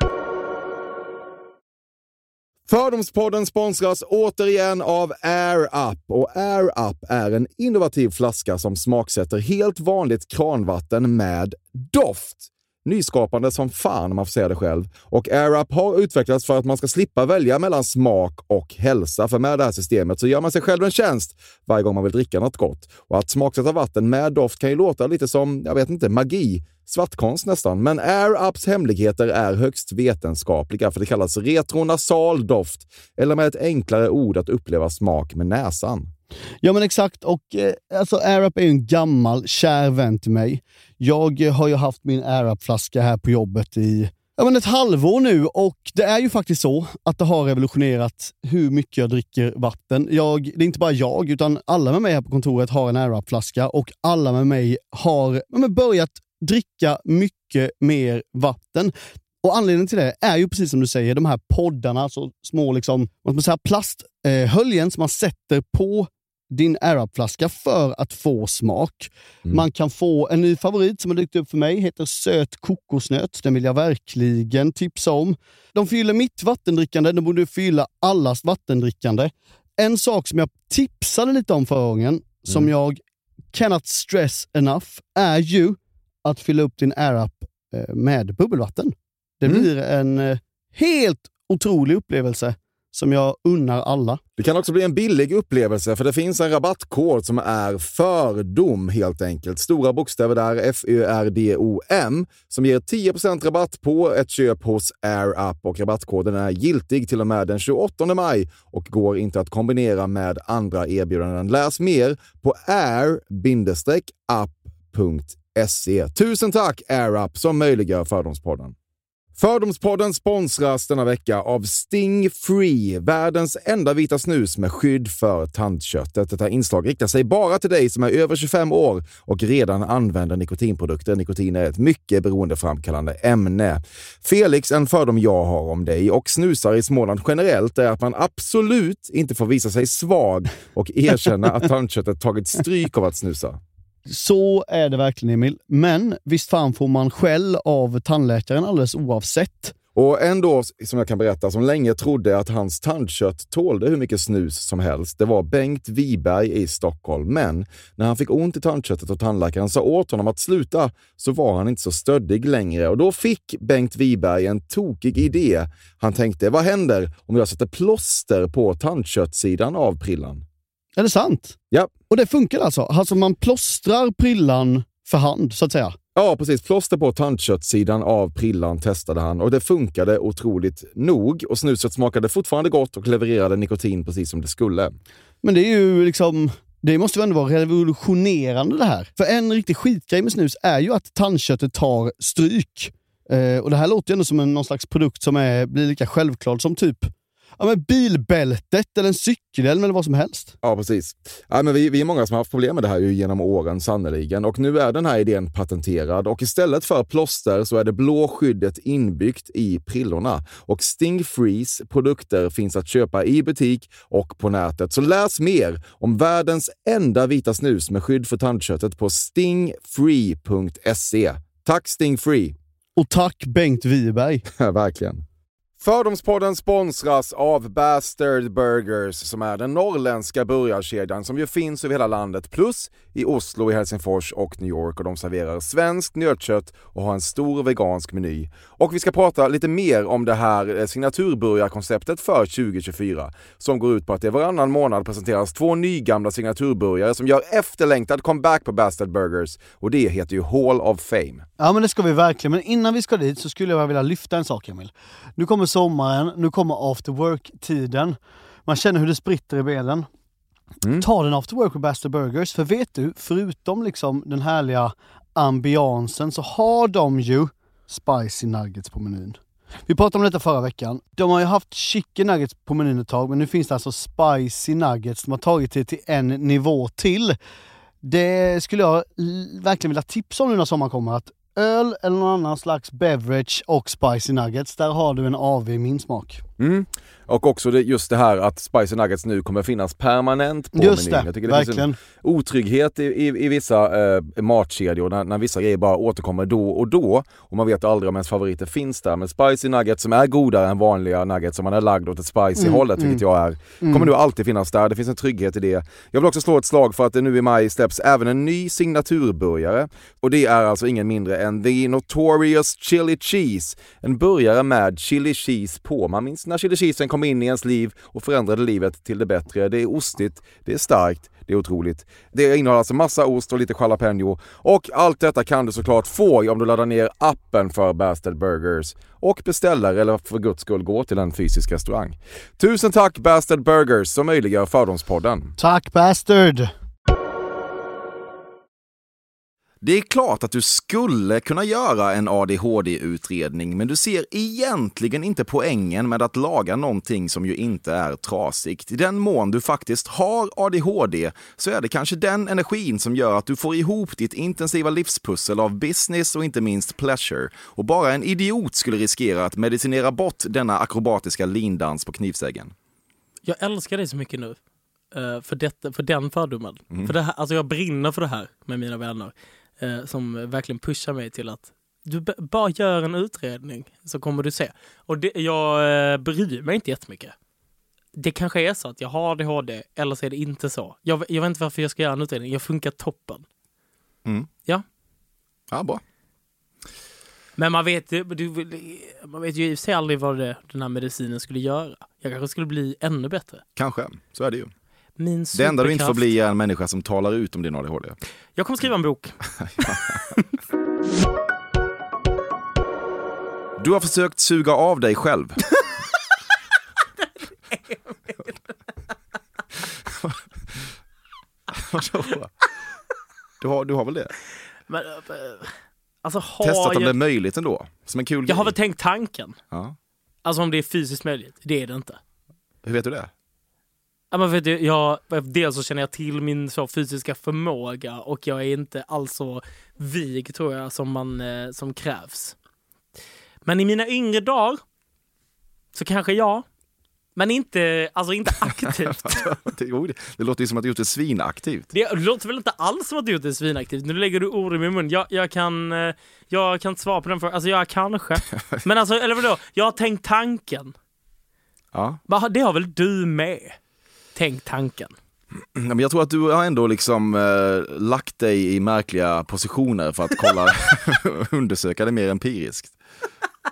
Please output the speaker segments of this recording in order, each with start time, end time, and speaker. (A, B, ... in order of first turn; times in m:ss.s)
0:02.7-0:36.1 A
0:36.6-1:23.0 B
1:23.5-1:34.2 B
1:34.4-1:58.8 A
1:59.4-2:23.6 A
2:24.1-2:29.8 B
2:30.0-2:50.4 A
2:51.0-2:51.6 B
2:52.1-2:56.0 B
2:56.2-3:05.0 A
3:05.4-3:20.5 B
3:20.6-3:42.6 A
3:43.0-3:44.5 B
3:44.5-3:45.2 A
3:45.8-4:11.5 A
4:11.6-4:20.1 B
4:21.0-4:37.4 B
4:38.0-4:46.4 B
4:46.6-5:35.6 A
4:50.8-4:52.0 B
5:02.6-5:03.2 B
5:03.8-5:04.1 B
5:35.6-5:36.7 B
5:39.8-6:02.7 A
6:03.4-6:04.6 C
6:05.1-6:17.3 C
6:18.2-6:23.4 C
6:25.7-6:26.0 A
6:27.6-6:33.6 C
6:33.8-6:34.7 A
6:35.2-6:36.3 C
6:35.5-6:38.2 A
6:38.6-6:39.9 C
6:39.6-6:40.2 A
6:43.8-6:45.6 A
6:47.7-6:48.6 C
6:50.1-6:50.8 A
6:51.7-6:52.5 A
6:53.6-6:54.3 A
6:54.9-6:55.7 C
6:56.2-6:57.2 C
6:56.6-6:58.7 A
6:58.5-6:59.6 C
6:59.7-7:00.0 A
7:00.4-7:02.2 C
7:02.8-7:03.3 A
7:04.3-7:12.6 C
7:13.6-7:14.8 C
7:15.9-7:16.6 C
7:17.4-7:19.6 C
7:18.9-7:21.9 A
7:21.9-7:30.9 C
7:28.6-7:28.8 A
7:31.9-7:32.2 A
7:32.3-7:33.8 C
7:34.4-7:35.1 C
7:35.8-7:43.0 A